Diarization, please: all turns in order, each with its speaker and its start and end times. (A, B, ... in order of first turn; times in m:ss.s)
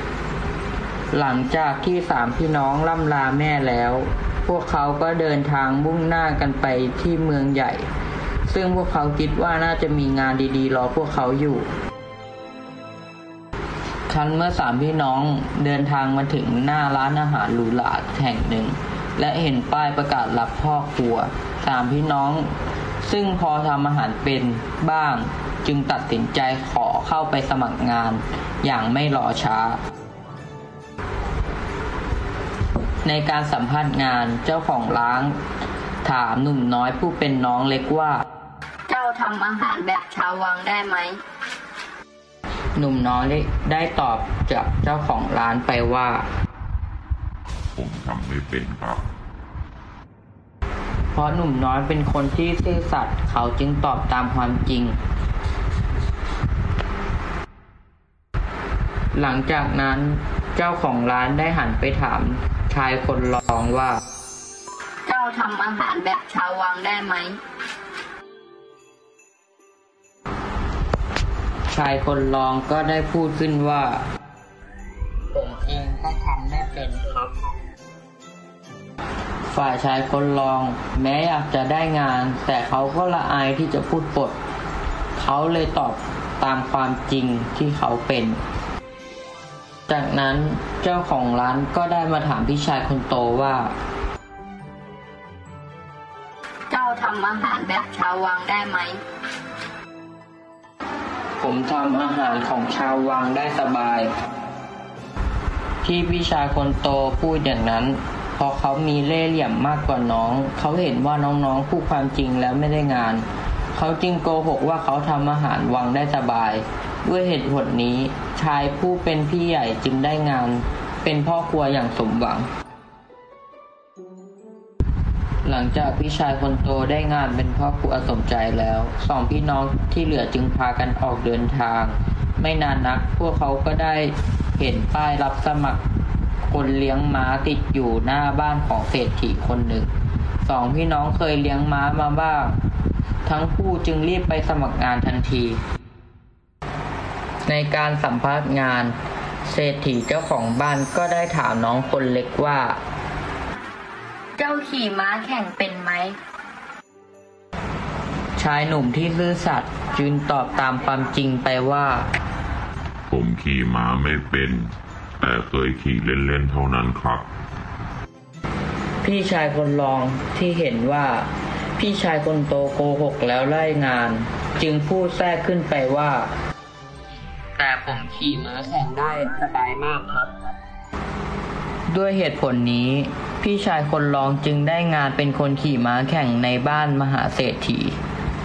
0:01.1-0:07.8 A
0:08.5-0:11.6 A
0:14.1-0:22.5 A
0:23.0-0:29.8 A
0:33.0-0:35.3 A
0:36.0-0:38.2 A
0:38.9-0:41.2 B
0:42.8-0:46.2 A
0:47.8-0:49.0 C
0:51.1-0:55.0 A
0:59.1-1:04.0 A
1:05.0-1:07.4 B
1:11.7-1:14.0 A
1:15.3-1:17.3 A
1:19.5-1:24.3 A
1:25.2-1:28.4 A
1:29.9-1:33.7 A
1:36.7-1:39.0 B
1:41.4-1:44.1 A
1:45.8-2:02.4 A
2:05.4-2:15.8 A
2:16.5-2:19.9 A
2:20.4-2:22.5 A
2:23.2-2:25.6 A
2:27.5-2:28.9 A
2:29.5-2:32.8 A
2:35.1-2:35.7 B
2:35.2-2:35.9 A
2:38.4-2:42.0 A
2:43.1-2:47.3 C
2:49.0-2:56.3 A
2:57.6-3:00.3 A
3:01.9-3:07.9 A